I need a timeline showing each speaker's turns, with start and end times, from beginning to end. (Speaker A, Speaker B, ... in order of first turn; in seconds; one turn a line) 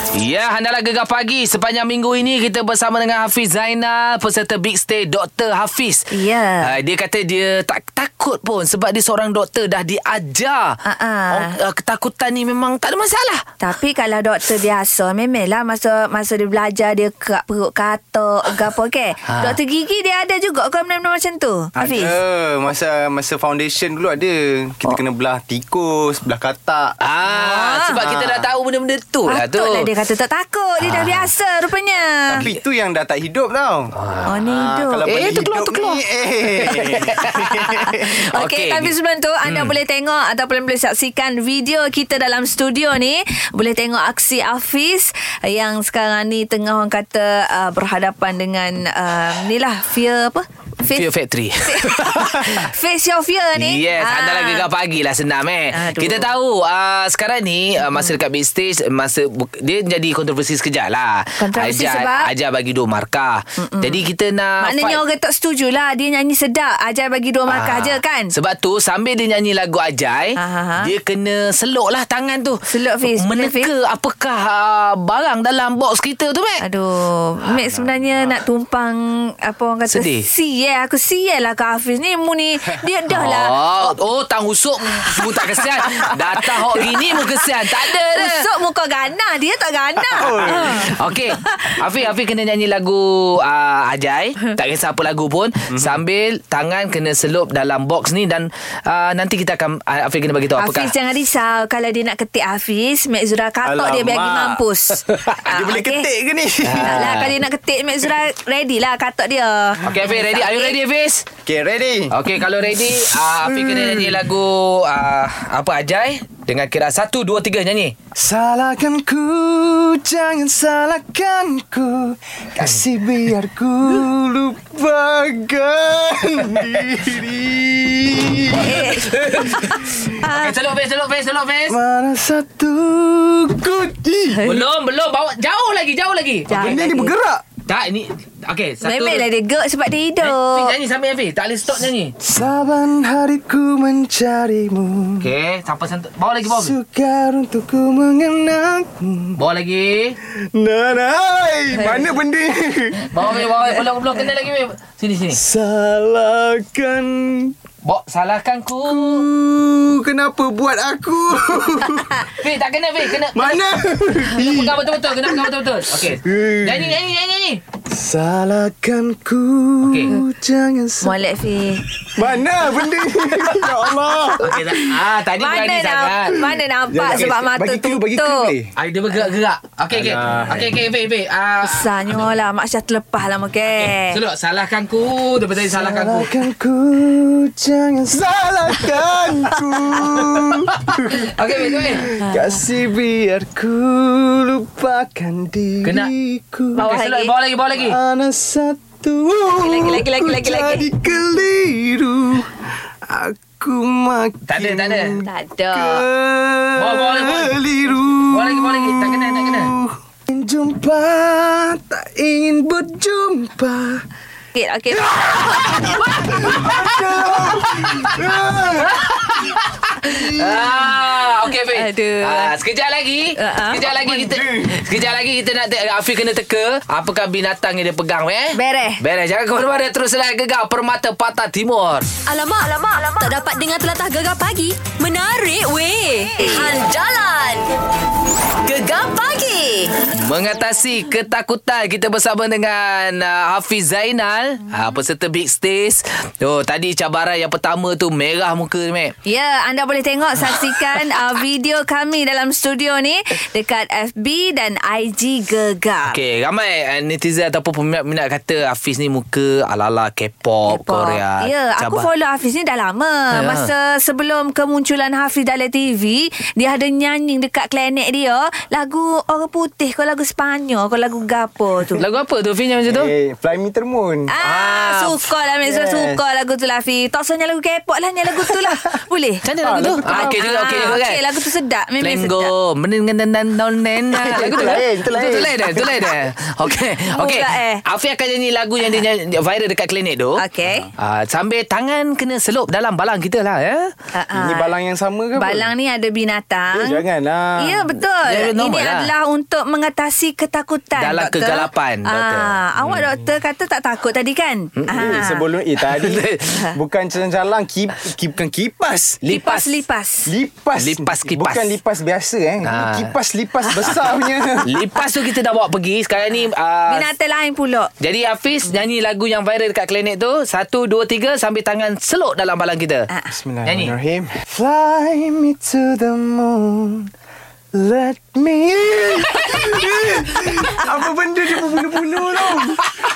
Speaker A: 0.1-10.8
Speaker B: 6.1-6.7
Speaker B: 10.8-11.6
Speaker A: 11.3-13.4
Speaker B: 13.6-22.1
Speaker A: 19.2-19.6
Speaker C: 21.8-27.0
Speaker A: 27.0-29.9
Speaker B: 27.3-28.0
Speaker C: 28.0-28.4
Speaker B: 29.3-32.4
Speaker A: 30.8-31.3
Speaker C: 32.3-33.9
Speaker A: 33.9-34.4
Speaker B: 34.2-35.1
Speaker C: 34.5-38.1
Speaker A: 35.0-38.9
Speaker B: 37.2-51.1
Speaker A: 39.4-39.7
Speaker A: 50.9-52.7
Speaker B: 51.6-54.7
Speaker A: 53.5-65.0
Speaker B: 55.7-56.3
Speaker B: 61.4-62.3
Speaker B: 63.6-64.0
Speaker B: 64.6-68.3
Speaker A: 67.5-76.6
Speaker B: 70.4-70.9
Speaker B: 72.7-73.7
Speaker B: 76.6-83.6
Speaker C: 77.6-78.0
Speaker A: 79.9-80.3
Speaker A: 83.1-88.5
Speaker B: 86.7-87.5
Speaker B: 88.0-91.8
Speaker C: 90.1-91.0
Speaker A: 90.5-100.9
Speaker C: 95.7-96.0
Speaker B: 100.5-106.0
Speaker C: 103.6-104.6
Speaker A: 105.1-105.4
Speaker C: 105.4-107.2
Speaker A: 106.6-107.3
Speaker B: 106.8-110.8
Speaker A: 109.8-111.2
Speaker C: 111.4-112.1
Speaker A: 112.1-117.9
Speaker C: 113.4-114.2
Speaker C: 118.2-129.4
Speaker B: 128.5-130.6
Speaker A: 129.0-131.8
Speaker C: 131.7-134.4
Speaker B: 134.3-134.7
Speaker A: 134.4-136.7
Speaker B: 136.5-137.1
Speaker C: 136.5-137.4
Speaker A: 137.7-139.3
Speaker B: 138.8-140.7
Speaker A: 140.2-142.1
Speaker C: 142.2-145.3
Speaker A: 145.2-146.7
Speaker C: 146.4-149.4
Speaker A: 149.3-150.2
Speaker C: 150.3-153.1
Speaker A: 153.0-155.4
Speaker C: 155.3-157.5
Speaker A: 157.8-159.2
Speaker C: 158.8-162.2
Speaker A: 162.4-163.6
Speaker C: 163.1-167.0
Speaker A: 164.3-167.6
Speaker C: 167.9-171.2
Speaker A: 169.8-170.2
Speaker B: 171.0-171.8
Speaker C: 172.1-174.5
Speaker A: 174.4-176.4
Speaker B: 174.4-178.5
Speaker C: 176.9-178.7
Speaker A: 178.8-182.2
Speaker C: 179.9-180.7
Speaker B: 181.6-184.2
Speaker A: 183.6-186.3
Speaker C: 185.6-196.9
Speaker A: 190.9-192.2
Speaker A: 195.8-196.1
Speaker A: 196.7-198.0
Speaker B: 196.8-197.3
Speaker C: 197.7-214.0
Speaker B: 199.6-200.9
Speaker A: 204.4-205.2
Speaker B: 205.2-206.0
Speaker A: 206.8-207.6
Speaker A: 208.3-209.7
Speaker B: 214.5-215.8
Speaker C: 214.9-219.2
Speaker A: 215.8-216.9
Speaker A: 217.7-218.2
Speaker A: 218.8-232.1
Speaker C: 220.0-220.9
Speaker B: 221.7-222.6
Speaker B: 223.4-223.8
Speaker C: 223.8-224.9
Speaker B: 228.5-229.0
Speaker D: 232.2-237.7
Speaker B: 236.4-236.7
Speaker D: 238.6-240.0
Speaker A: 240.1-249.1
Speaker B: 249.2-256.2
Speaker A: 256.1-262.1
Speaker B: 260.7-272.0
Speaker A: 263.3-263.7
Speaker A: 272.0-273.1
Speaker C: 272.9-274.3
Speaker B: 274.3-282.5
Speaker A: 274.4-275.3
Speaker C: 275.6-276.2
Speaker A: 279.4-281.3
Speaker C: 279.6-280.9
Speaker A: 282.0-290.4
Speaker C: 284.1-286.2
Speaker B: 284.2-284.8
Speaker B: 287.1-287.8
Speaker B: 290.4-290.9
Speaker C: 290.6-290.9
Speaker A: 291.0-293.9
Speaker B: 294.1-294.7
Speaker C: 294.3-295.7
Speaker B: 295.4-297.0
Speaker C: 296.7-297.9
Speaker B: 297.6-305.4
Speaker A: 298.2-299.1
Speaker A: 300.9-303.0
Speaker A: 304.8-305.2
Speaker C: 304.9-309.2
Speaker A: 305.9-306.6
Speaker A: 309.2-309.8
Speaker B: 309.3-310.3
Speaker C: 310.3-314.7
Speaker A: 310.8-311.7
Speaker A: 312.6-313.1
Speaker A: 314.6-317.1
Speaker B: 316.4-317.9
Speaker A: 318.0-323.1
Speaker C: 323.3-327.1
Speaker A: 323.6-323.9
Speaker C: 327.7-332.9